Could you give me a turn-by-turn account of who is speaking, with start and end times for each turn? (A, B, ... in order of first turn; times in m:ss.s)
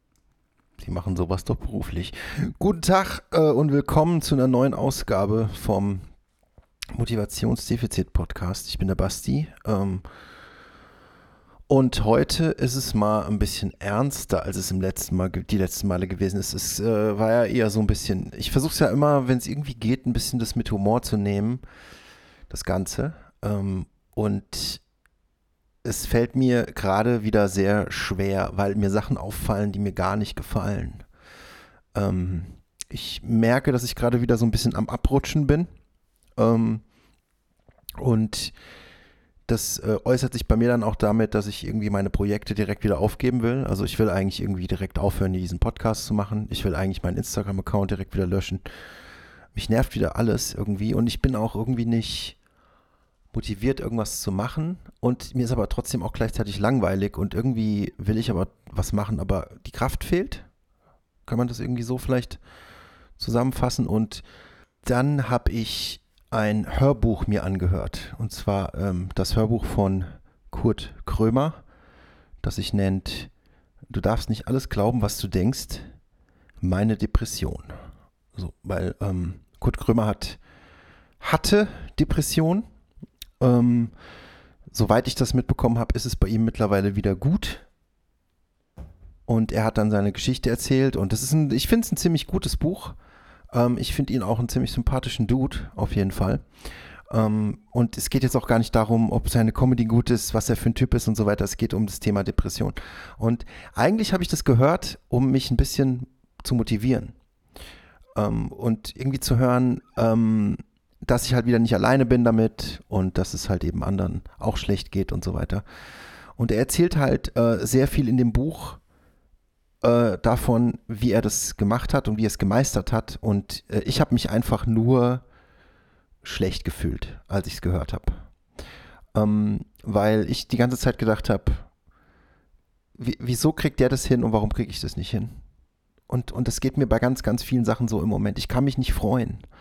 0:00.8-0:06.0 A
0:06.9-0:10.0 A
0:11.7-0:21.6 A
0:22.5-0:24.8 A
0:25.8-0:31.0 A
0:31.9-0:35.7 A
0:36.4-0:36.8 A
0:38.0-0:38.6 A
0:39.5-0:48.6 A
0:49.5-0:52.4 A
0:53.3-1:00.5 A
1:01.3-1:02.4 A
1:03.2-1:04.2 A
1:04.8-1:11.6 A
1:12.4-1:13.3 A
1:13.9-1:15.9 A
1:16.6-1:17.7 A
1:18.4-1:20.4 A
1:21.2-1:22.6 A
1:23.4-1:23.9 A
1:24.7-1:27.6 A
1:29.3-1:33.0 A
1:33.5-1:36.4 A
1:37.1-1:47.2 A
1:48.2-1:55.6 A
1:56.4-1:58.8 A
1:59.8-2:05.2 A
2:06.2-2:08.2 A
2:09.1-2:11.7 A
2:13.0-2:15.4 A
2:16.1-2:19.4 A